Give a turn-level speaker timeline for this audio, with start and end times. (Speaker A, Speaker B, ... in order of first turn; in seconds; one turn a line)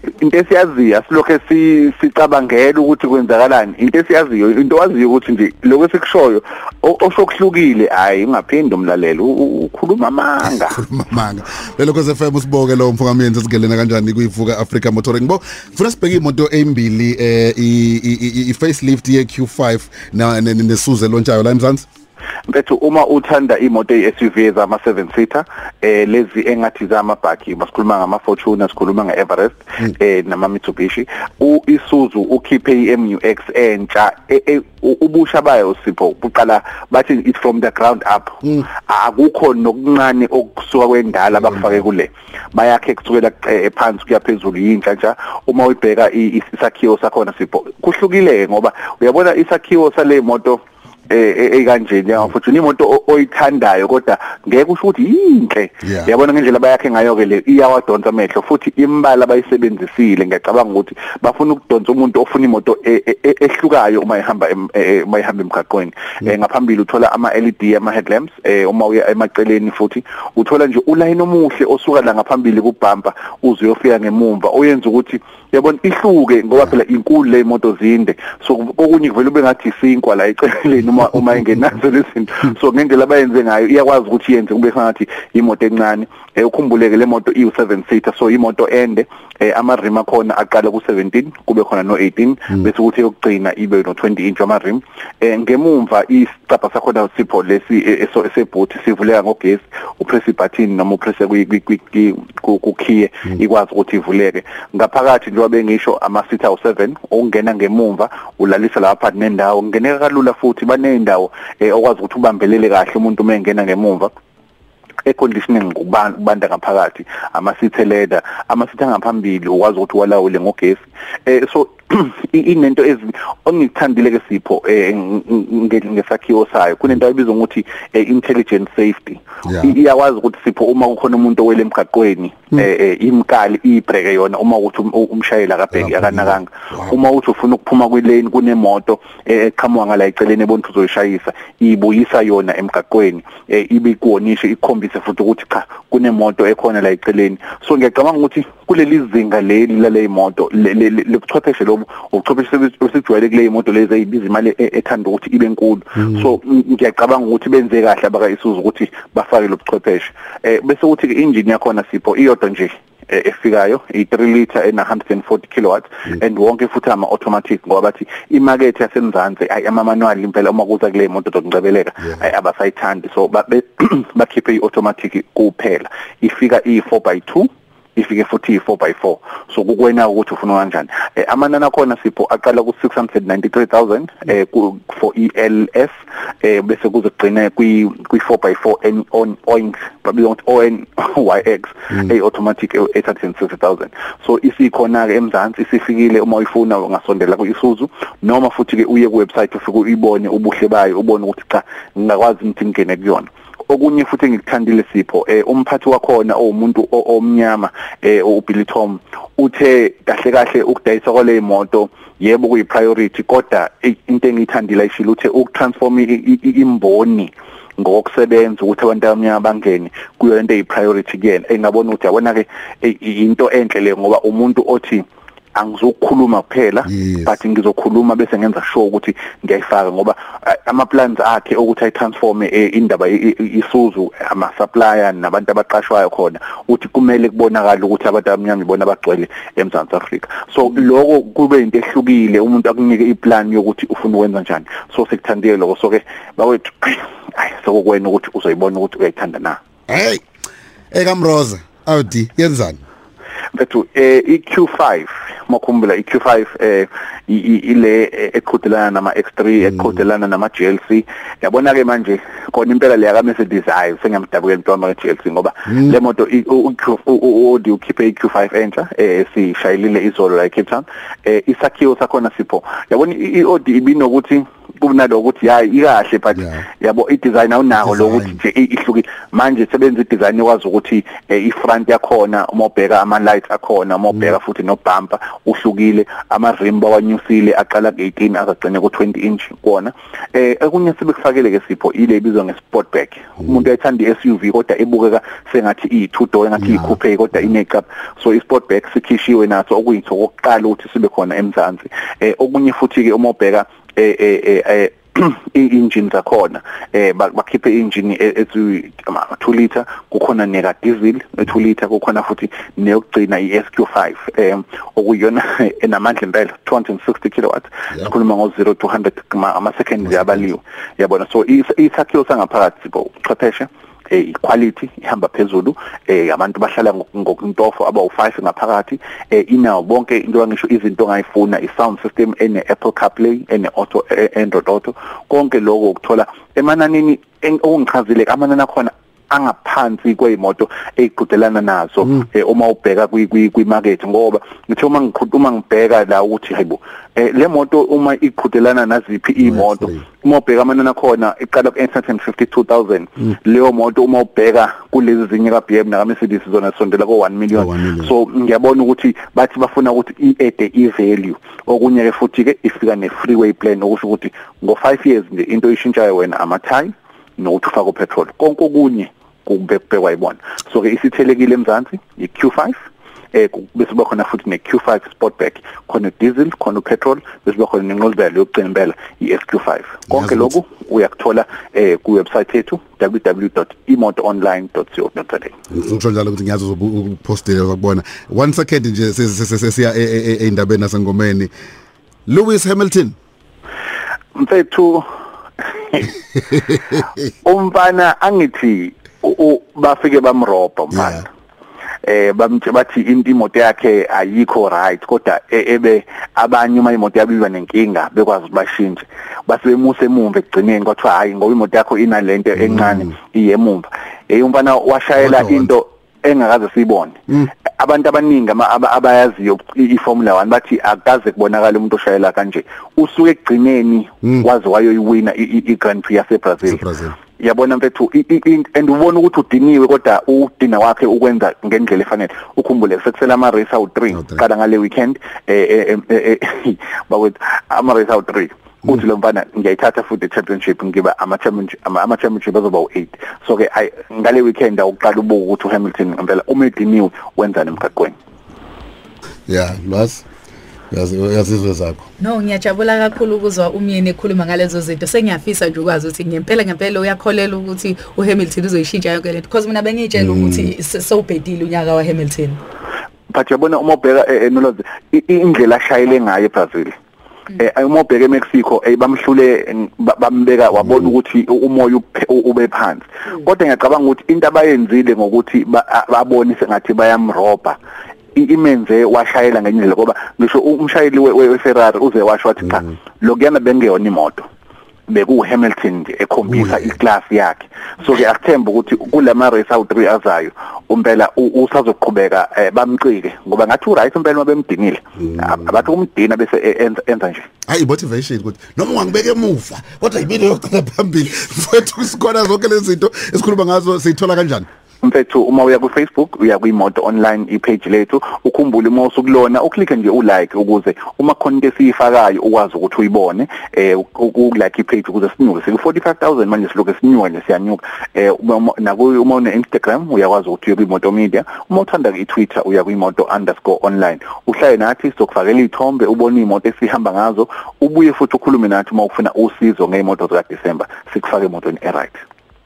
Speaker A: 0.2-10.8
Speaker B: 10.4-21.9
Speaker A: 22.5-114.1
Speaker B: 55.8-56.1
Speaker A: 115.0-249.6
Speaker B: 129.4-129.7
Speaker B: 135.7-136.9
Speaker B: 226.9-227.3
Speaker B: 249.9-250.2
Speaker B: 250.9-252.8
Speaker A: 253.5-372.8
Speaker B: 277.8-278.4
Speaker B: 349.4-350.0
Speaker B: 357.5-358.1
Speaker A: 373.3-385.6
Speaker B: 380.1-380.4
Speaker B: 385.7-391.5
Speaker B: 392.3-393.1
Speaker A: 394.3-395.0
Speaker A: 395.6-396.1
Speaker A: 397.4-401.3
Speaker B: 400.9-401.2
Speaker A: 402.0-426.8
Speaker B: 415.2-415.7
Speaker B: 426.6-427.1
Speaker A: 427.4-448.2
Speaker B: 434.1-434.4
Speaker B: 449.5-450.2
Speaker B: 450.9-452.1
Speaker C: 452.2-462.6
Speaker B: 460.3-460.7
Speaker A: 463.3-466.9
Speaker A: 467.5-477.8
Speaker A: 478.3-484.4
Speaker A: 485.1-497.5
Speaker B: 497.7-504.7
Speaker A: 505.0-532.2